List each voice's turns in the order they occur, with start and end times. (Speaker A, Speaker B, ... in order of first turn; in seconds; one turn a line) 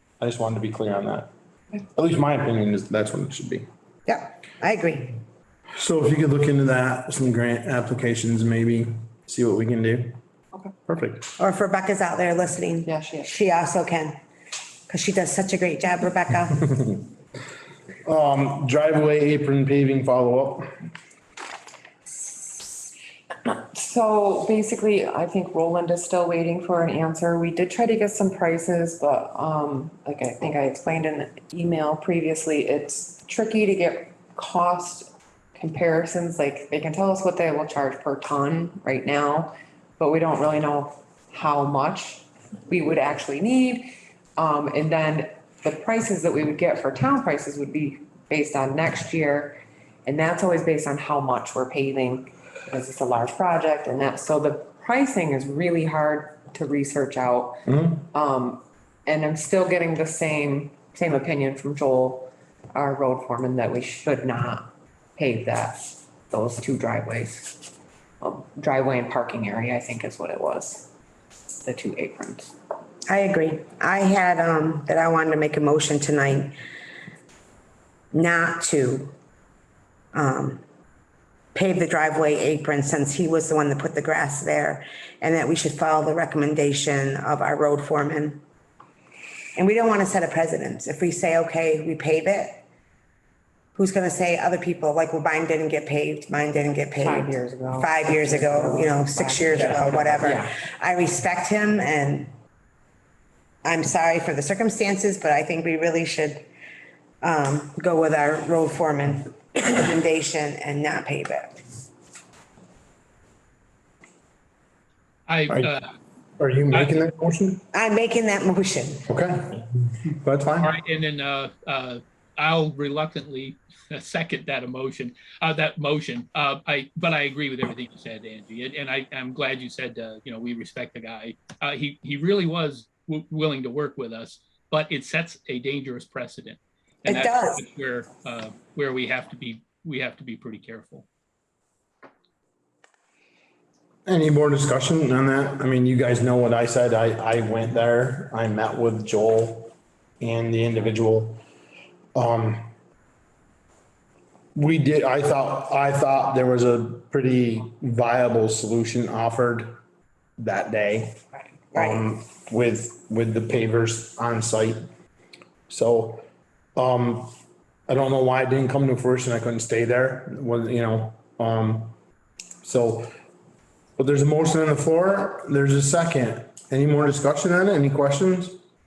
Speaker A: 0.2-1.3
Speaker A: 1.9-3.7
Speaker B: 4.1-5.2
Speaker A: 5.8-10.2
Speaker A: 10.9-11.3
Speaker B: 11.4-14.2
Speaker C: 12.9-13.3
Speaker B: 14.9-16.9
Speaker A: 18.1-20.7
Speaker C: 22.1-22.9
Speaker C: 23.4-70.9
Speaker A: 57.7-58.0
Speaker C: 71.5-72.5
Speaker B: 73.1-76.5
Speaker B: 78.1-79.1
Speaker B: 80.1-80.6
Speaker B: 81.5-88.4
Speaker B: 89.6-92.6
Speaker B: 93.8-102.3
Speaker C: 97.0-100.5
Speaker B: 103.6-106.5
Speaker B: 107.2-111.6
Speaker D: 115.3-115.9
Speaker A: 116.4-117.7
Speaker D: 116.7-117.0
Speaker B: 117.7-119.1
Speaker A: 119.1-120.8
Speaker D: 120.6-141.1
Speaker B: 137.1-137.6
Speaker A: 144.1-151.4
Speaker A: 152.2-152.7
Speaker A: 154.6-159.8
Speaker A: 160.4-161.2
Speaker B: 161.7-162.1
Speaker A: 161.7-164.9
Speaker A: 165.7-166.2
Speaker A: 166.8-167.3
Speaker A: 167.9-171.9
Speaker A: 172.6-173.2
Speaker A: 174.0-178.6